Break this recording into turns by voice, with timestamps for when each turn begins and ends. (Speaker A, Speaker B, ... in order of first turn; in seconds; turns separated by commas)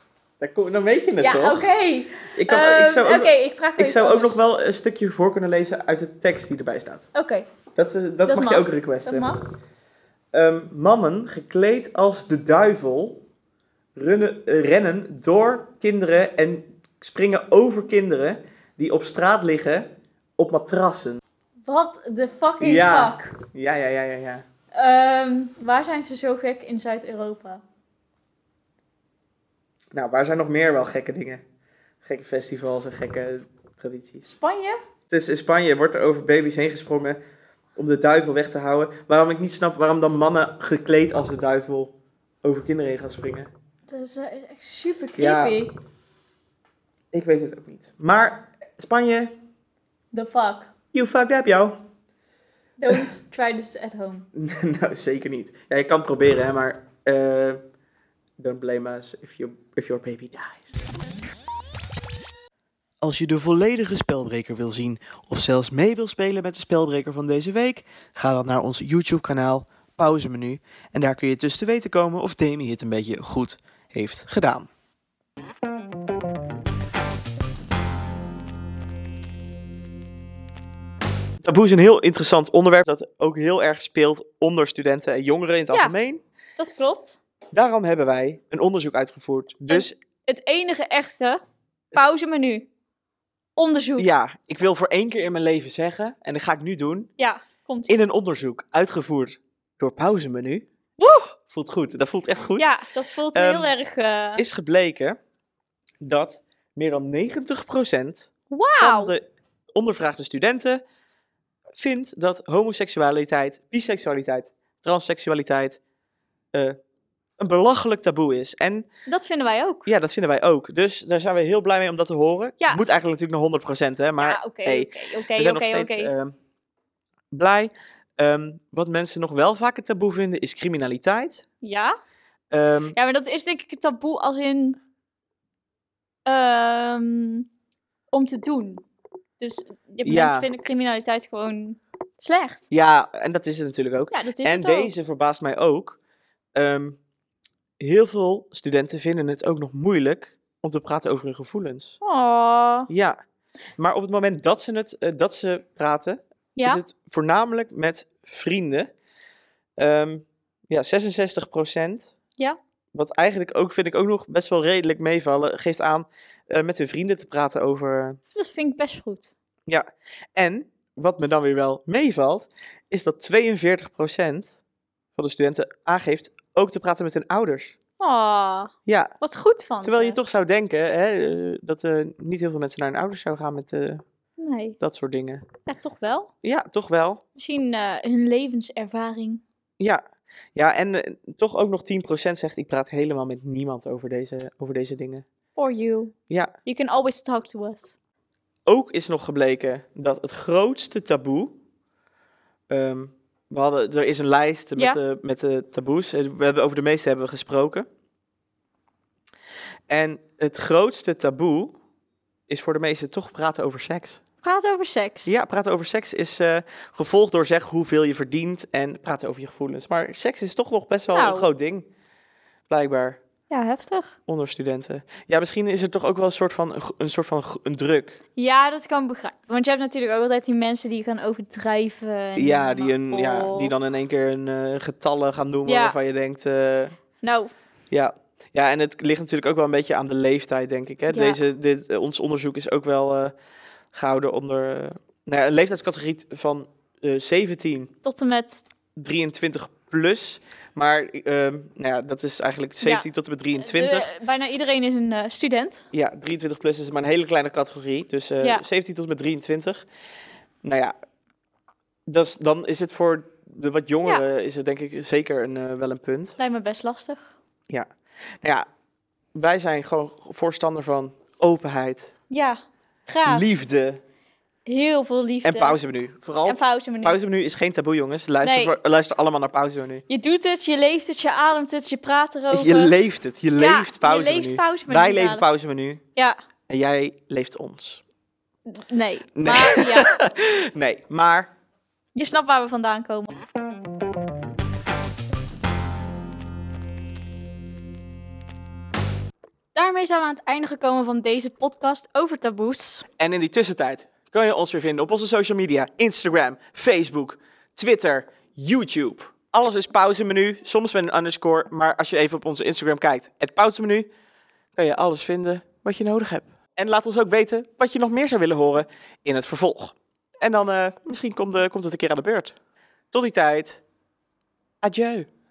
Speaker A: 0.4-1.7, Speaker B: 1.2-4.4, Speaker A: 2.3-7.1, Speaker B: 7.2-7.5, Speaker A: 7.8-9.3, Speaker B: 8.3-9.4, Speaker A: 10.3-13.2, Speaker A: 14.0-21.2, Speaker B: 21.6-23.3, Speaker A: 22.6-24.4, Speaker B: 24.7-27.6, Speaker A: 29.9-31.4, Speaker A: 32.0-34.3, Speaker B: 34.4-34.8, Speaker A: 35.1-37.2, Speaker A: 37.8-43.5, Speaker B: 43.9-45.7, Speaker A: 45.2-45.6, Speaker A: 47.1-49.3, Speaker B: 50.1-50.7, Speaker A: 50.9-51.8, Speaker B: 52.8-54.3, Speaker A: 54.4-57.6, Speaker A: 58.4-60.8, Speaker A: 63.0-74.7, Speaker A: 81.4-86.2, Speaker B: 86.6-87.2, Speaker A: 87.5-89.9, Speaker B: 89.7-91.4, Speaker B: 91.9-92.7, Speaker B: 93.6-94.1, Speaker A: 94.0-97.1, Speaker B: 97.2-97.9, Speaker A: 97.9-100.7, Speaker B: 101.0-101.3, Speaker A: 101.4-102.7, Speaker B: 102.6-104.4, Speaker A: 103.3-103.7, Speaker A: 104.4-105.2, Speaker A: 106.0-110.8, Speaker B: 108.5-109.1, Speaker A: 111.7-115.8, Speaker A: 117.4-118.9, Speaker B: 119.1-119.9, Speaker A: 119.9-126.3, Speaker B: 124.2-126.1, Speaker A: 127.3-131.4, Speaker B: 131.6-132.0, Speaker A: 132.5-132.9, Speaker B: 133.0-134.8, Speaker B: 136.3-137.5, Speaker B: 138.1-138.8, Speaker B: 139.4-142.7, Speaker A: 140.0-140.5, Speaker A: 142.7-146.0, Speaker B: 144.1-144.9, Speaker A: 146.6-147.0, Speaker A: 147.8-152.0, Speaker B: 152.0-152.9, Speaker A: 152.9-153.2, Speaker A: 153.8-158.9, Speaker B: 156.6-156.8, Speaker A: 159.8-162.1, Speaker A: 162.9-168.2, Speaker B: 168.3-169.3, Speaker A: 169.7-174.6, Speaker A: 175.2-177.7, Speaker B: 178.0-180.2, Speaker A: 178.9-179.1, Speaker A: 179.8-184.0, Speaker B: 184.4-184.8, Speaker A: 184.8-185.4, Speaker B: 185.7-186.3, Speaker A: 186.4-187.2, Speaker B: 187.4-189.4, Speaker A: 190.6-195.3, Speaker B: 195.6-198.0, Speaker A: 198.7-201.6, Speaker A: 202.7-207.9, Speaker A: 209.9-211.8, Speaker A: 212.5-214.2, Speaker B: 214.4-215.3, Speaker A: 215.3-221.9, Speaker B: 221.1-221.5, Speaker A: 222.7-223.2, Speaker B: 223.5-224.2, Speaker A: 224.3-228.2, Speaker B: 228.4-233.7, Speaker A: 232.4-237.0, Speaker B: 235.7-235.9, Speaker B: 237.2-237.5, Speaker A: 237.9-243.3, Speaker B: 241.1-241.4, Speaker A: 243.9-247.9, Speaker B: 248.1-248.7, Speaker A: 249.0-254.1, Speaker B: 253.6-255.9, Speaker A: 255.9-259.9, Speaker A: 260.6-260.9, Speaker A: 262.1-266.4, Speaker B: 266.4-267.3, Speaker A: 268.4-268.7, Speaker A: 269.4-272.1, Speaker B: 272.3-273.5, Speaker A: 273.3-274.0, Speaker B: 274.7-275.8, Speaker A: 275.4-280.1, Speaker B: 276.5-277.1, Speaker B: 278.4-278.8, Speaker B: 280.1-282.9, Speaker A: 282.5-286.0, Speaker B: 283.6-285.4, Speaker A: 286.7-288.0, Speaker B: 288.7-290.1, Speaker A: 289.4-291.5, Speaker B: 292.1-293.3, Speaker B: 299.8-303.1, Speaker A: 303.2-314.1, Speaker A: 314.8-322.6, Speaker A: 323.1-323.8, Speaker A: 324.8-325.3